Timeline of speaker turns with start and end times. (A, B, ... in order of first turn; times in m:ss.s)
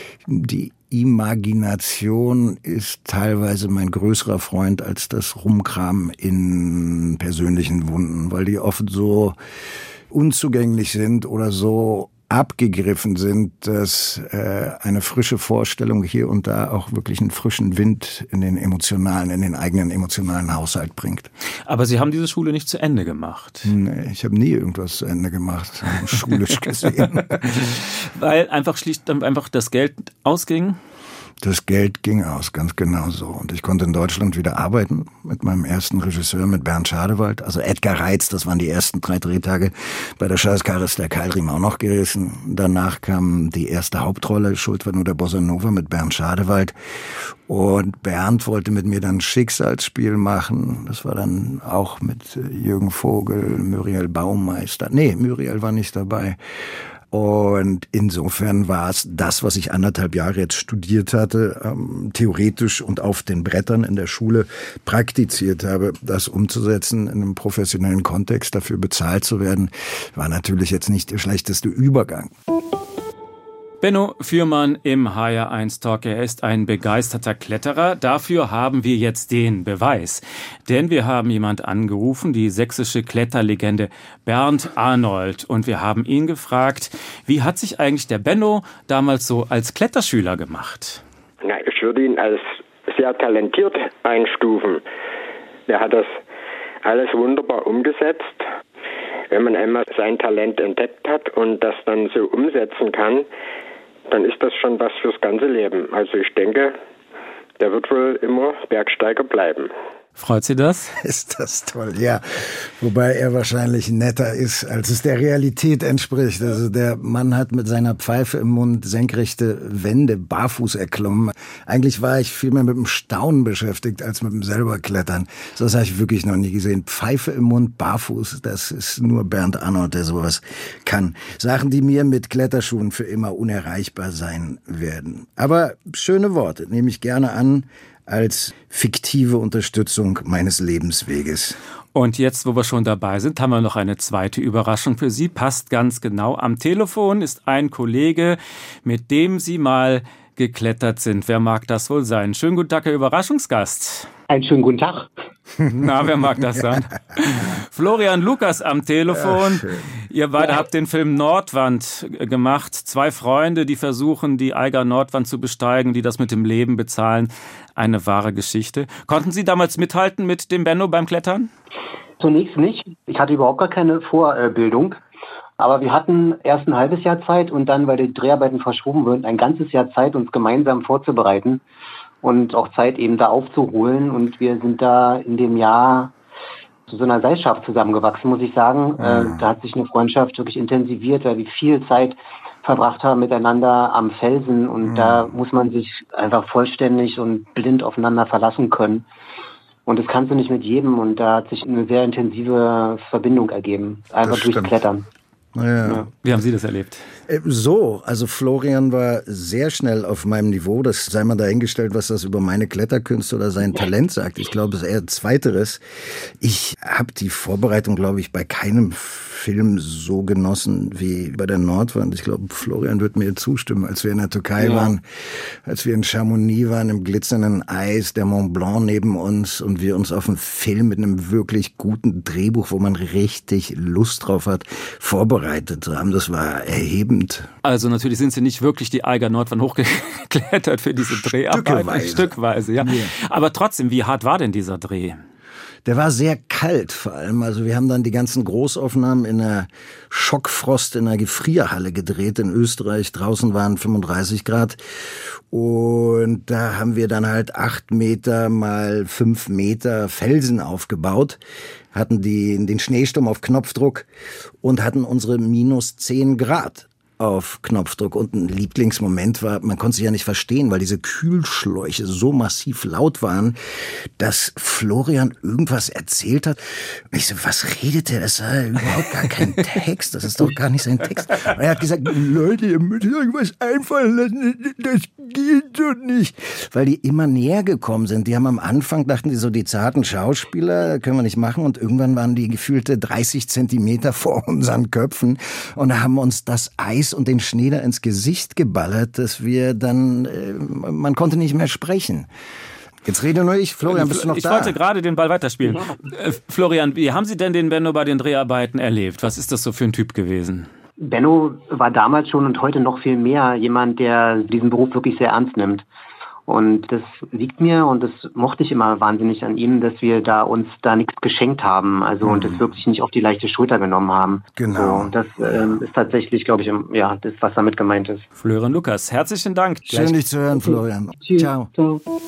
0:00.2-0:09.4 A
0:10.1-0:21.3 A
0:21.7-0:23.7 B
0:23.6-0:27.4 A
0:27.2-0:30.8 B
0:31.4-0:56.4 A
0:57.1-1:12.3 A
1:13.8-1:31.0 B
1:31.4-1:34.8 C
1:35.7-1:36.2 C
1:36.8-1:38.4 C
1:39.3-1:43.2 C
1:44.1-1:46.7 C
1:47.6-1:49.7 C
1:50.2-1:51.0 B
1:51.0-2:21.6 A
2:21.9-2:34.1 B
2:34.3-2:35.1 D
2:35.6-2:51.5 B
2:39.0-2:39.9 A
2:52.2-2:55.0 D
2:55.6-3:01.6 D
3:02.2-3:06.1 D
3:06.9-3:19.0 D
3:09.0-3:09.4 A
3:14.9-3:15.3 A
3:19.8-3:25.0 D
3:24.2-3:24.8 A
3:25.5-3:26.1 A
3:26.2-3:27.0 B
3:27.3-3:57.5 A
3:57.6-4:05.2 B
4:01.1-4:03.1 A
4:05.8-4:21.4 A
4:21.9-4:24.1 A
4:24.6-5:02.3 A
5:03.0-5:04.8 A
5:03.9-5:10.7 B
5:11.0-5:15.8 D
5:16.5-5:28.2 D
5:22.2-5:22.6 A
5:24.6-5:25.1 A
5:28.4-5:30.1 B
5:29.9-5:31.7 A
5:31.2-5:32.0 D